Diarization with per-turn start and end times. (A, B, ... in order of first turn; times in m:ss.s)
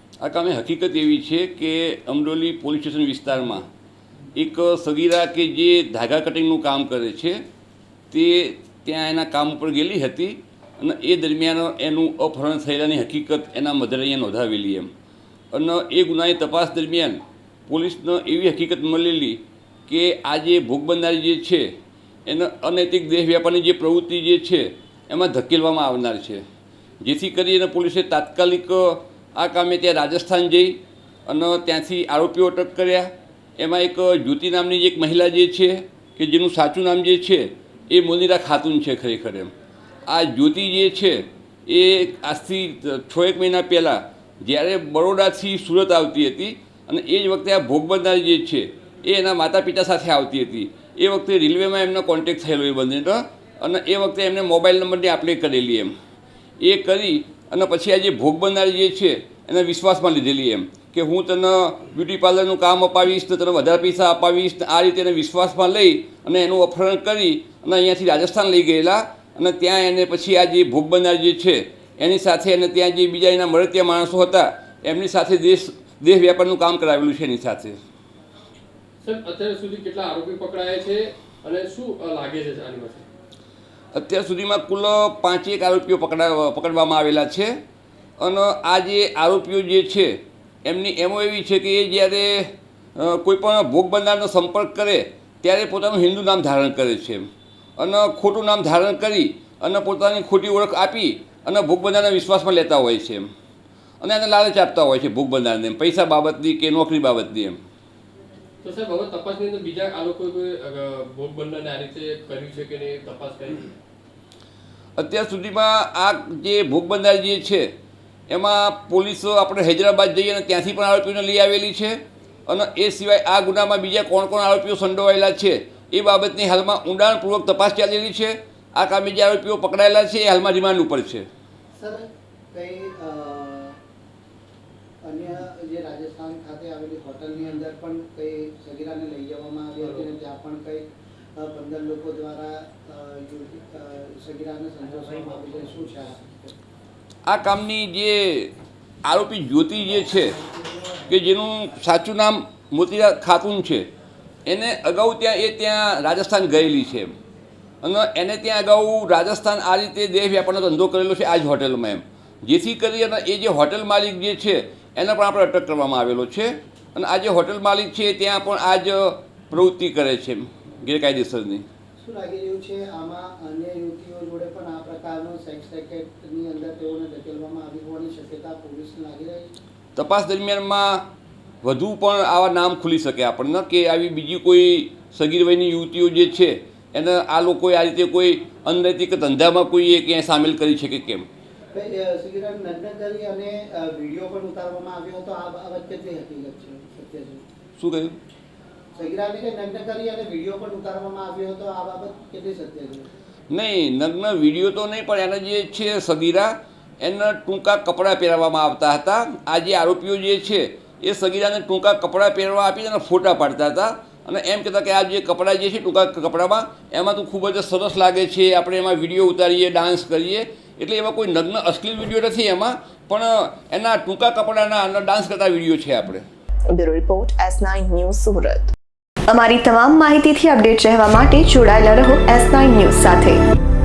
0:00.2-0:03.6 A
0:04.4-0:07.4 A
0:08.1-0:14.9 A
0:15.5-0:21.7 A
0:22.3-0:26.4 A
0:27.0-0:30.8 A
0:31.3-0:39.5 A
0:40.1-0:55.9 A
0:56.6-1:17.8 A
1:19.0-1:23.0 B
1:23.9-1:27.5 A
1:28.2-1:30.1 A
1:30.6-1:37.2 A
1:37.8-1:43.2 A
1:44.0-1:47.6 A
1:48.6-1:53.7 B
1:55.0-1:57.7 A
1:58.3-2:02.0 A
2:02.5-2:11.3 A
2:11.7-2:13.8 C
2:15.0-2:26.6 C
2:27.3-2:28.5 A
2:29.0-2:30.4 A
2:31.0-2:33.8 A
2:34.5-2:37.1 A
2:37.8-2:51.6 A
2:52.0-2:59.5 C
3:00.0-3:01.0 A
3:01.6-3:11.2 A
3:11.7-3:17.4 C
3:17.8-3:18.2 A
3:18.9-3:23.1 C
3:23.5-3:46.2 A
3:46.7-3:48.7 D
3:49.3-3:53.4 D